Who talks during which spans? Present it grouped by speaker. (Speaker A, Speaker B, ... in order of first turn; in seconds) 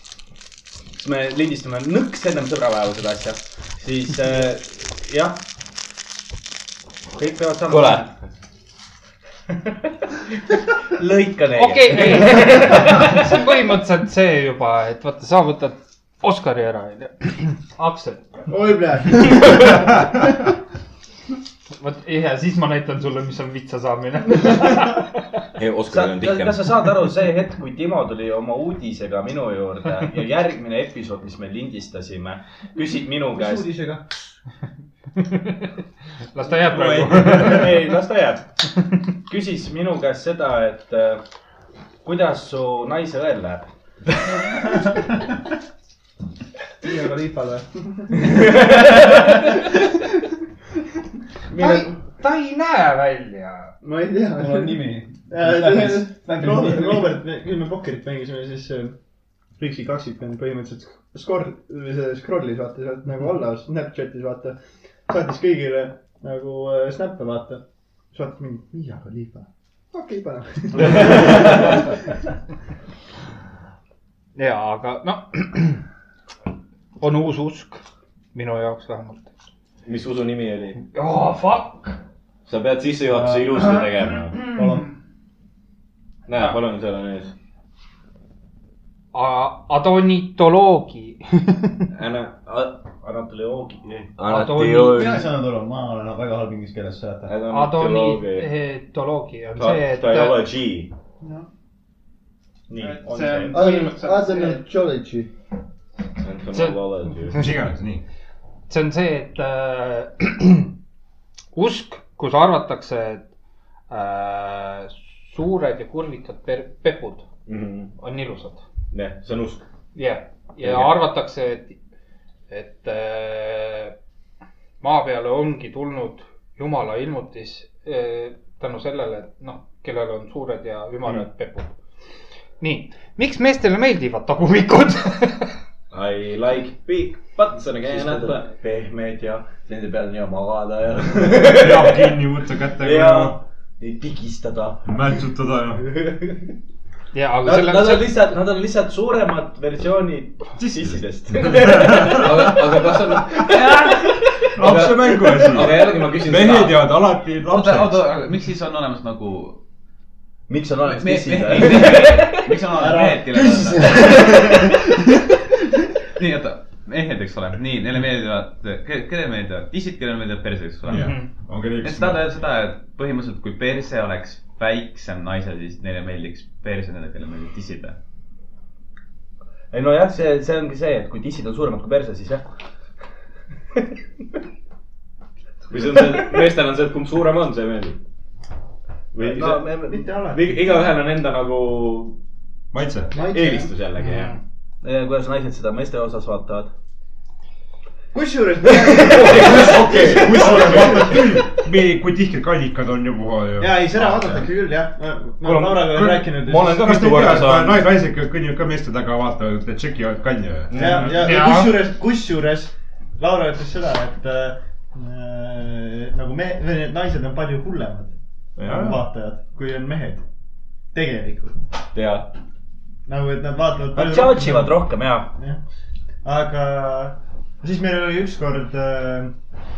Speaker A: 0.9-5.4, 7.1-8.1, 10.9-13.3, 25.9-33.8, 36.8-38.5, 39.2-41.2, 42.0-43.7, 92.4-94.1, 102.7-103.5, 137.8-142.1, 142.8-144.8, 145.8-146.5, 147.4-156.0, 160.5-162.5, 163.8-164.6, 179.7-182.4, 189.2-190.0, 194.8-196.7, 199.6-200.5, 223.9-225.3
Speaker B: 7.7-8.1, 25.6-26.8, 70.9-71.7, 79.8-80.8, 82.5-84.4, 86.3-87.3, 91.9-92.7, 94.2-95.3, 97.3-98.5, 99.5-100.9, 106.2-107.4, 117.5-117.9, 118.9-119.6, 120.6-120.9, 135.9-138.5, 152.0-153.5, 154.6-156.8, 185.7-188.0, 189.1-192.2, 193.1-194.3, 198.7-201.1, 205.4-207.9, 210.7-211.2, 221.9-222.3
Speaker C: 11.5-18.4, 21.8-25.2, 35.2-35.7, 36.3-37.9, 51.6-53.7, 74.3-75.8, 77.0-77.8, 78.3-79.3, 80.9-82.0, 89.1-91.6, 94.3-95.0, 97.5-100.4, 102.8-104.6, 106.5-107.4, 108.7-110.7, 111.5-113.2, 113.9-117.2, 118.0-118.6, 119.9-121.8, 122.5-123.9, 124.8-131.7, 132.6-135.6, 147.1-148.2, 170.9-171.3, 194.0-194.4, 211.2-211.8
Speaker D: 18.5-20.5, 46.8-50.0, 53.8-59.0, 59.6-72.2, 103.4-105.3, 162.8-165.0, 189.2-190.7, 193.1-193.7, 198.1-201.3, 203.6-207.3, 210.7-218.1, 218.7-220.2, 220.9-221.7, 223.1-225.6, 226.2-229.3
Speaker E: 33.3-34.0, 54.3-57.2, 83.1-83.8, 84.5-84.9, 94.8-97.3, 157.4-159.6, 160.8-164.5, 166.2-178.0, 204.0-204.4
Speaker F: 107.3-108.0, 141.3-143.4, 144.8-145.9, 150.8-152.7, 154.5-158.1, 170.9-172.3, 192.7-193.1, 200.1-203.8, 205.9-211.1, 218.6-219.0